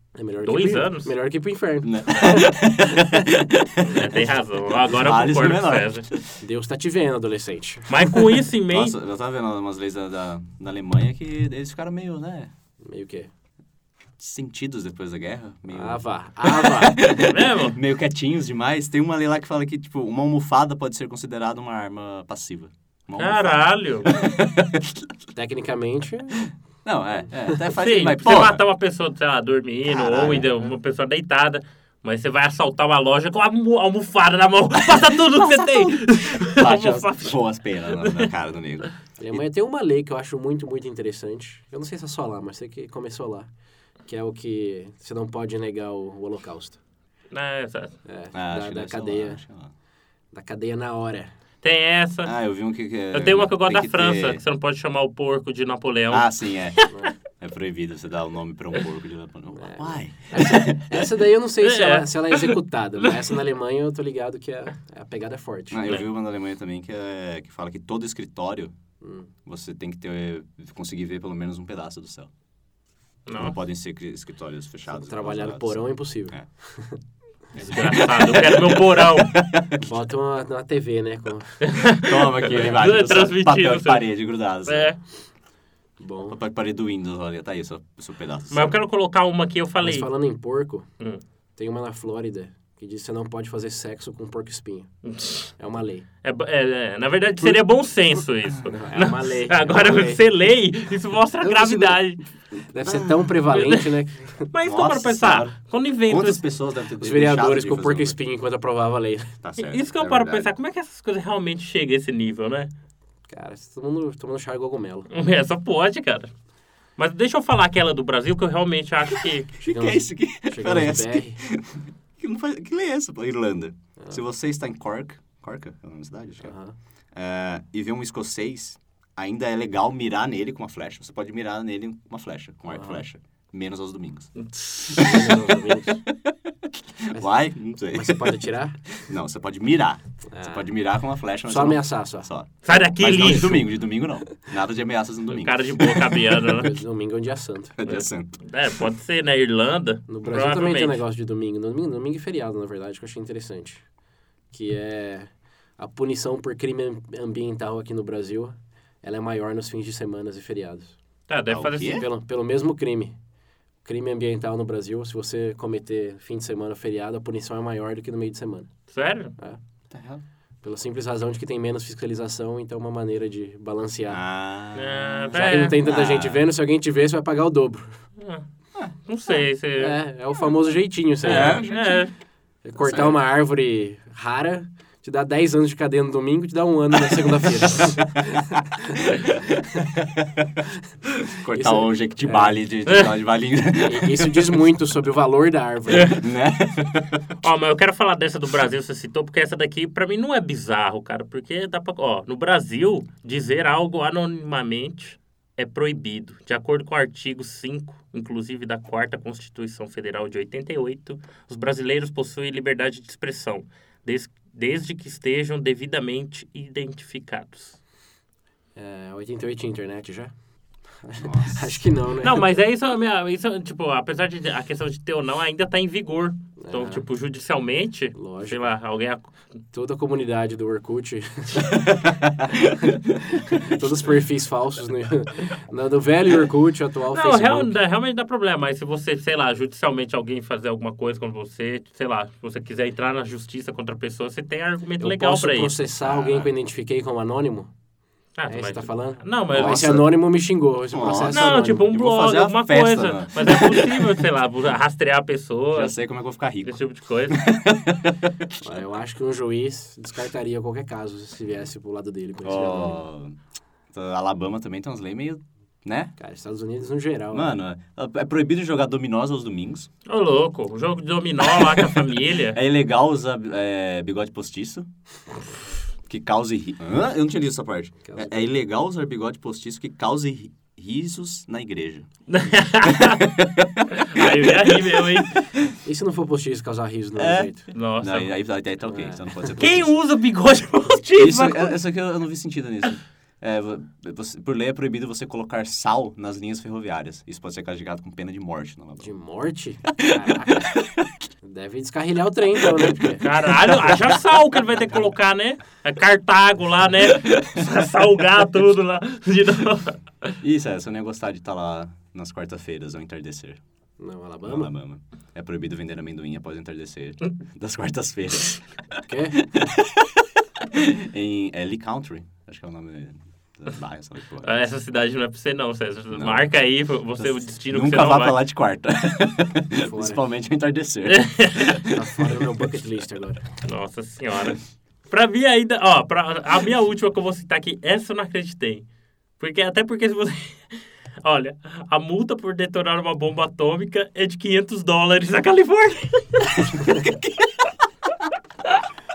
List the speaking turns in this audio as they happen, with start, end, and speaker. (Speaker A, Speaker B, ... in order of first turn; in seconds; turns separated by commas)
Speaker A: 0.1-3.2, Speaker B: 0.4-1.1, Speaker C: 1.8-6.4, Speaker B: 3.8-6.0, Speaker A: 6.4-8.2, Speaker B: 7.9-8.9, Speaker C: 8.7-12.5, Speaker A: 12.8-13.3, Speaker C: 14.2-25.1, Speaker A: 15.7-17.1, Speaker B: 17.1-17.8, Speaker B: 23.2-24.1, Speaker A: 25.4-26.5, Speaker C: 26.9-28.6, Speaker B: 27.7-38.3, Speaker C: 29.9-30.5, Speaker A: 30.1-30.5, Speaker C: 34.8-39.4, Speaker A: 39.2-43.5, Speaker A: 44.1-46.8, Speaker B: 47.3-48.0, Speaker A: 48.0-49.4, Speaker C: 48.3-49.7, Speaker A: 50.3-51.3, Speaker B: 51.6-52.4, Speaker C: 52.2-54.4, Speaker B: 53.1-57.1, Speaker C: 56.1-56.8, Speaker C: 57.4-61.0, Speaker A: 59.5-65.9, Speaker B: 61.6-62.6, Speaker C: 65.7-68.7, Speaker A: 69.0-69.3, Speaker C: 69.5-72.3, Speaker B: 73.3-73.6, Speaker C: 73.4-76.5, Speaker A: 74.9-77.0, Speaker C: 77.5-79.8, Speaker B: 77.7-79.3, Speaker A: 79.8-81.6, Speaker B: 81.7-85.0, Speaker C: 82.1-84.9, Speaker A: 82.5-82.8, Speaker A: 86.0-86.4, Speaker C: 86.3-88.8, Speaker B: 88.5-90.1, Speaker A: 89.8-90.9, Speaker A: 91.6-94.9, Speaker B: 95.1-95.5, Speaker A: 95.6-96.1, Speaker B: 96.2-102.2, Speaker A: 98.7-100.1, Speaker C: 99.7-100.2, Speaker C: 101.4-103.4, Speaker A: 102.7-104.5, Speaker B: 103.5-103.8, Speaker B: 104.5-106.4, Speaker C: 104.6-108.2, Speaker A: 107.0-109.3, Speaker C: 109.4-110.5, Speaker B: 109.6-112.7, Speaker A: 113.3-115.1, Speaker B: 115.1-116.3, Speaker B: 117.0-119.5, Speaker C: 119.2-126.5, Speaker A: 119.7-121.4, Speaker A: 126.4-126.8, Speaker C: 127.1-134.3, Speaker A: 132.7-133.0, Speaker B: 134.4-135.5, Speaker C: 134.9-146.3, Speaker A: 135.0-136.0, Speaker A: 137.9-138.8, Speaker A: 140.3-140.7, Speaker A: 141.5-142.3, Speaker B: 142.6-143.7, Speaker B: 145.3-146.8, Speaker A: 146.5-147.7, Speaker C: 147.8-148.4, Speaker B: 147.8-151.0, Speaker A: 150.1-153.8, Speaker A: 154.5-160.9, Speaker B: 161.3-162.1, Speaker C: 161.5-162.1, Speaker A: 161.9-163.2, Speaker A: 163.8-168.7, Speaker B: 168.9-169.3, Speaker C: 169.9-170.2, Speaker A: 170.6-174.2, Speaker C: 174.1-176.5, Speaker B: 174.7-175.8, Speaker A: 175.3-178.0, Speaker B: 178.2-178.4, Speaker B: 179.1-180.0, Speaker A: 179.8-181.7, Speaker C: 181.2-182.1, Speaker B: 181.2-182.1, Speaker A: 182.6-189.9, Speaker C: 182.8-183.2, Speaker C: 191.3-194.6, Speaker A: 191.5-192.6, Speaker B: 192.9-193.1, Speaker A: 193.8-196.2, Speaker B: 195.9-196.2, Speaker C: 196.2-197.2, Speaker B: 197.4-217.8, Speaker A: 218.8-220.3, Speaker A: 221.0-222.4, Speaker C: 221.2-221.8, Speaker B: 222.2-229.3, Speaker A: 226.6-227.1, Speaker A: 228.2-228.7, Speaker A: 229.7-231.9, Speaker C: 232.0-232.8, Speaker A: 233.2-237.8, Speaker B: 237.1-245.7, Speaker A: 245.0-247.7, Speaker C: 246.0-246.5, Speaker B: 248.4-250.0, Speaker A: 248.5-251.9, Speaker C: 249.5-250.1, Speaker C: 250.9-254.3, Speaker B: 251.3-256.0, Speaker C: 255.7-258.6, Speaker B: 256.6-257.4, Speaker A: 258.6-263.0, Speaker C: 262.4-263.4, Speaker C: 263.9-266.1, Speaker A: 266.2-267.6, Speaker C: 267.3-269.9, Speaker B: 270.1-272.6, Speaker C: 271.4-272.0, Speaker C: 272.5-274.9, Speaker C: 276.1-282.1, Speaker A: 278.1-278.5, Speaker B: 282.3-283.4, Speaker C: 282.9-285.7, Speaker B: 284.0-285.4, Speaker A: 285.8-287.7, Speaker C: 287.2-289.9, Speaker B: 287.7-288.3, Speaker A: 288.9-289.7, Speaker B: 289.6-291.8, Speaker C: 291.2-299.1, Speaker A: 299.0-300.7, Speaker C: 300.0-301.1, Speaker A: 301.4-303.3, Speaker C: 302.8-304.2, Speaker B: 303.2-310.4, Speaker C: 310.4-313.6, Speaker A: 314.0-314.7, Speaker C: 314.4-324.6, Speaker A: 319.1-319.4, Speaker B: 324.4-328.4, Speaker C: 326.1-332.5, Speaker A: 329.7-330.2, Speaker B: 331.1-331.7, Speaker A: 331.9-333.5, Speaker B: 333.6-338.9, Speaker B: 339.4-347.0, Speaker C: 346.6-347.4